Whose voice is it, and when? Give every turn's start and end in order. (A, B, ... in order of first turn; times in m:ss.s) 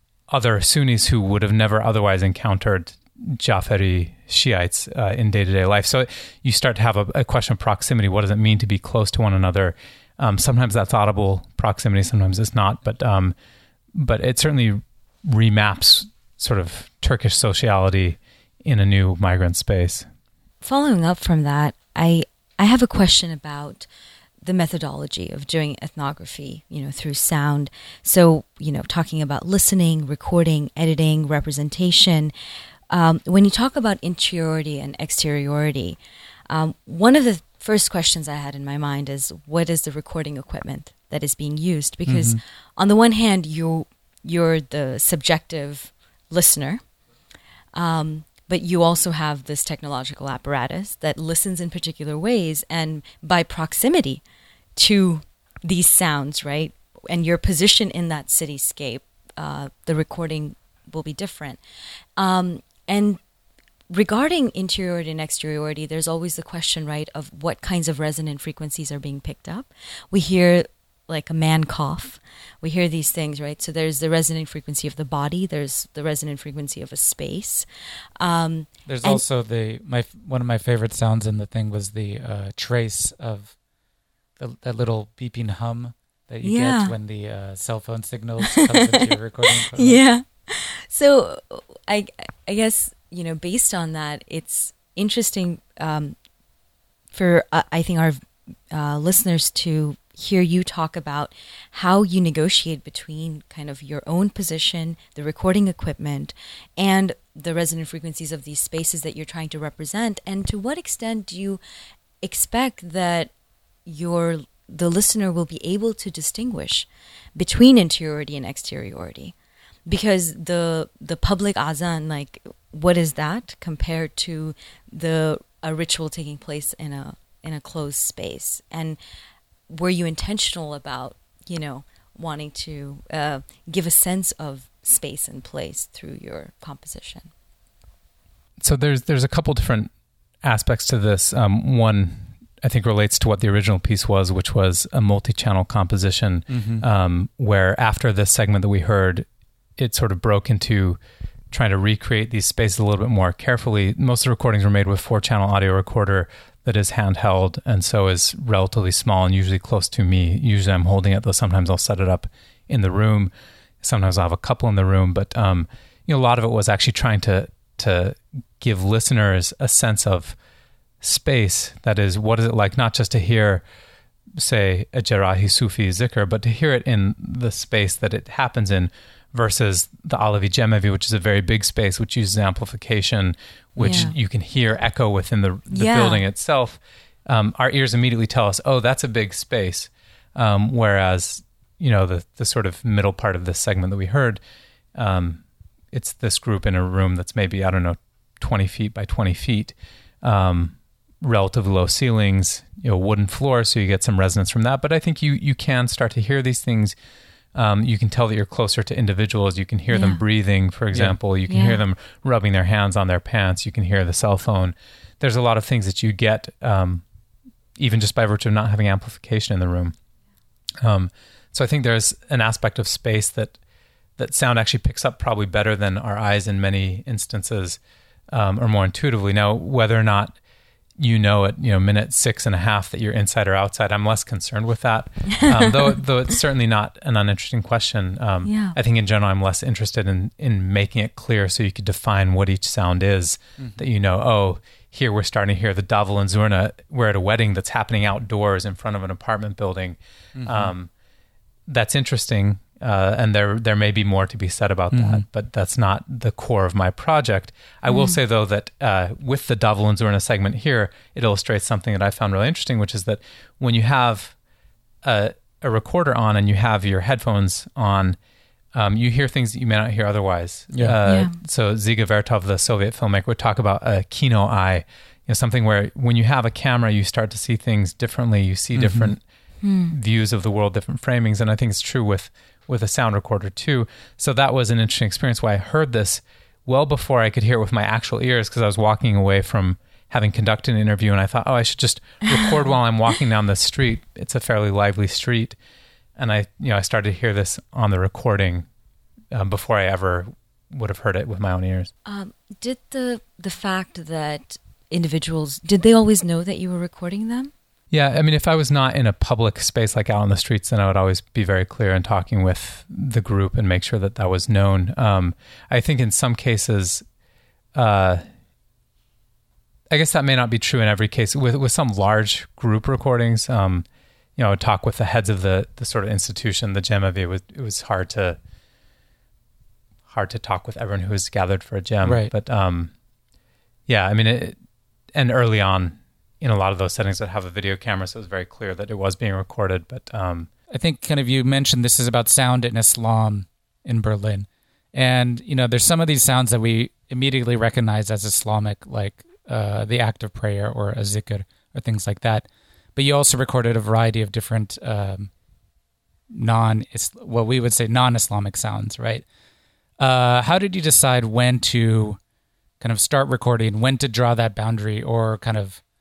0:00.3-0:13.4 A
0:13.9-0:20.1 A
0:20.6-0:23.9 B
0:24.4-0:32.3 B
0:32.9-0:46.8 B
0:42.1-0:42.4 C
0:47.7-0:54.2 B
0:54.8-1:01.6 B
1:02.2-1:03.2 B
1:03.9-1:17.7 B
1:18.2-1:19.2 B
1:18.9-1:23.6 C
1:24.4-1:30.0 C
1:26.4-1:27.0 B
1:28.5-1:36.2 B
1:37.1-1:51.6 B
1:52.2-1:53.3 B
1:53.9-1:59.3 B
1:59.9-2:09.0 B
2:09.7-2:17.3 B
2:18.6-2:31.0 A
2:26.5-2:26.9 C
2:31.5-2:50.4 A
2:51.0-2:53.6 A
2:54.4-3:14.4 A
3:03.8-3:04.2 B
3:05.7-3:06.2 B
3:15.0-3:27.0 A
3:27.5-3:37.0 A
3:29.9-3:30.2 B
3:31.5-3:31.8 B
3:37.8-3:40.0 A
3:40.8-3:43.6 A
3:44.2-3:50.4 A
3:51.0-4:10.9 A
3:55.4-3:55.8 B
3:58.4-3:58.8 B
4:10.4-4:10.7 C
4:11.7-4:24.4 A
4:14.9-4:15.2 C
4:17.9-4:18.2 B
4:25.0-4:28.2 A
4:28.7-4:39.2 A
4:31.0-4:31.4 B
4:38.8-4:39.1 C
4:39.6-4:39.9 B
4:39.9-4:55.6 A
4:56.2-4:58.7 A
4:59.3-5:01.9 A
5:02.1-5:07.5 B
5:07.9-5:17.1 A
5:17.8-5:18.2 A
5:19.9-5:28.4 A
5:30.1-5:32.9 A
5:32.0-5:32.3 C
5:33.9-5:34.6 A
5:35.1-5:40.5 A
5:40.7-5:55.3 C
5:56.3-5:59.2 C
6:00.0-6:02.2 C
6:02.8-6:05.8 C